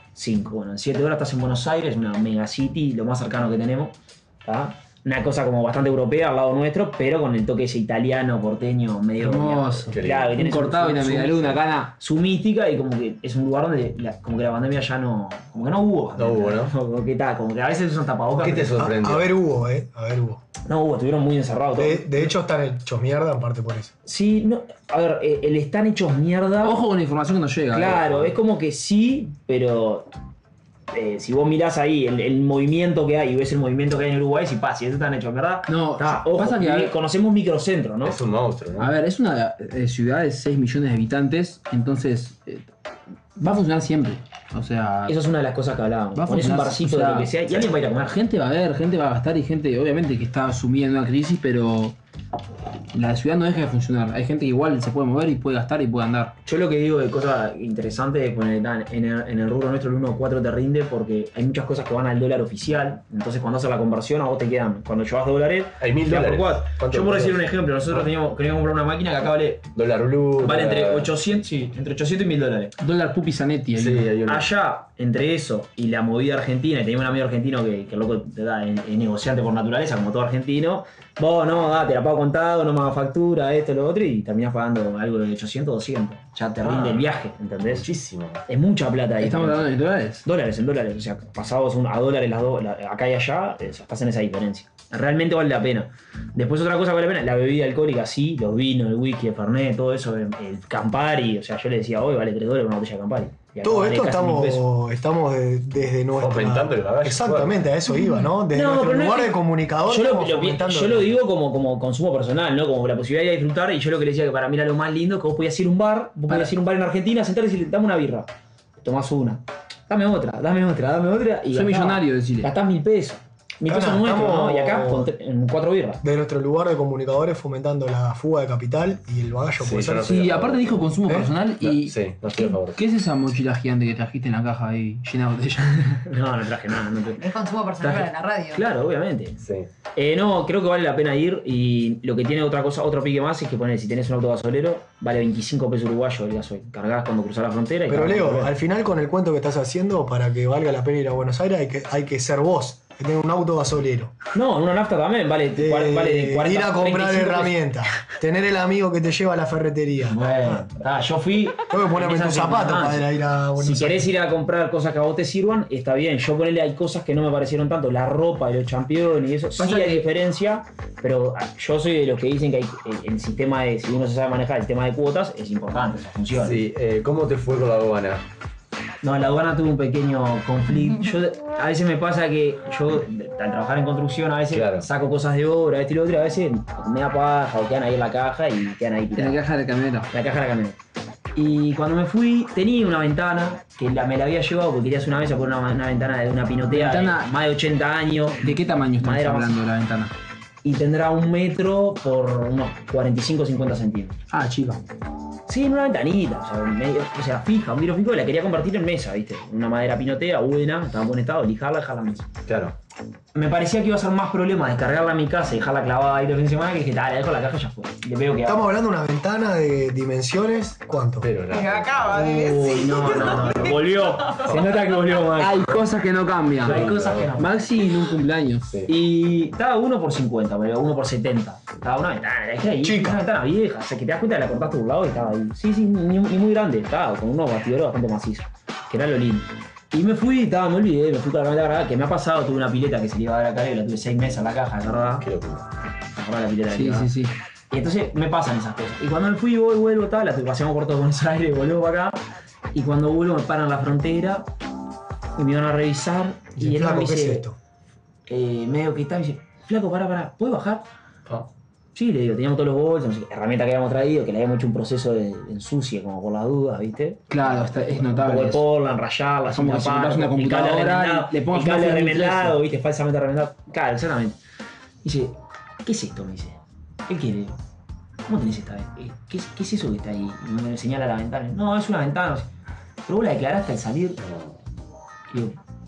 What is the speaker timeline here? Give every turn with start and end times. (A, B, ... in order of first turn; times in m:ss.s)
0:00.2-0:18.8 A
0:09.2-0:11.9 B
0:09.9-0:10.3 C
0:16.2-0:16.7 C
0:18.4-0:19.3 C
0:18.8-0:20.4 D
0:20.7-0:22.3 A
0:21.8-0:23.9 D
0:24.1-0:26.8 A
0:26.6-0:28.0 B
0:27.7-0:30.1 A
0:27.8-0:28.3 C
0:30.9-0:38.2 A
0:35.7-0:37.0 B
0:38.0-0:38.9 C
0:38.8-0:42.7 B
0:43.4-0:45.2 B
0:45.1-0:48.2 A
0:46.2-0:47.3 B
0:48.1-0:52.0 B
0:52.9-0:56.3 B
0:56.4-1:09.7 A
1:05.8-1:08.1 C
1:09.8-1:11.1 C
1:10.4-1:12.8 A
1:12.8-1:14.1 B
1:13.8-1:14.5 C
1:14.3-1:27.9 A
1:26.6-1:27.1 C
1:27.7-1:28.4 C
1:28.5-1:29.7 A
1:29.2-1:30.2 B
1:30.2-1:44.6 A
1:43.6-1:51.2 D
1:46.2-1:47.6 C
1:48.5-1:58.3 A
1:58.8-2:06.0 A
2:01.5-2:02.5 B
2:03.7-2:05.1 D
2:06.0-2:10.2 D
2:09.6-2:10.9 C
2:10.0-2:16.1 B
2:11.0-2:11.3 D
2:11.6-2:12.8 C
2:16.1-2:17.2 A
2:17.2-2:18.6 E
2:17.8-2:19.4 A
2:19.4-2:19.7 C
2:20.0-2:28.5 A
2:27.9-2:34.1 D
2:34.4-2:37.6 A
2:35.6-2:40.7 D
2:40.1-2:56.6 A
2:41.7-2:44.1 D
2:49.6-2:50.1 B
2:56.3-2:58.2 C
2:59.0-3:09.4 A
3:04.5-3:04.9 C
3:09.2-3:10.1 B
3:10.1-3:10.8 A
3:11.4-3:19.6 A
3:16.7-3:17.3 B
3:18.4-3:20.1 B
3:20.6-3:24.2 A
3:24.3-3:24.8 B
3:25.5-3:32.3 A
3:32.5-3:32.8 C
3:33.3-3:38.7 A
3:38.4-3:41.3 D
3:41.2-3:43.8 C
3:41.5-3:43.6 E
3:42.1-3:45.8 A
3:45.4-3:48.7 B
3:46.6-3:47.4 C
3:46.6-3:47.6 A
3:48.7-3:48.9 C
3:48.9-4:05.3 A
3:52.8-3:53.2 D
4:05.2-4:05.7 C
4:06.1-4:07.1 A
4:06.7-4:07.3 B
4:07.7-4:12.2 A
4:12.7-4:14.5 A
4:15.4-4:17.5 A
4:16.6-4:17.6 D
4:18.3-4:20.8 A
4:22.0-4:34.4 A
4:27.3-4:28.6 B
4:29.5-4:32.6 B
4:35.0-4:37.6 A
4:38.3-4:42.5 A
4:43.1-4:44.2 A
4:44.2-4:44.6 C
4:45.3-4:45.6 A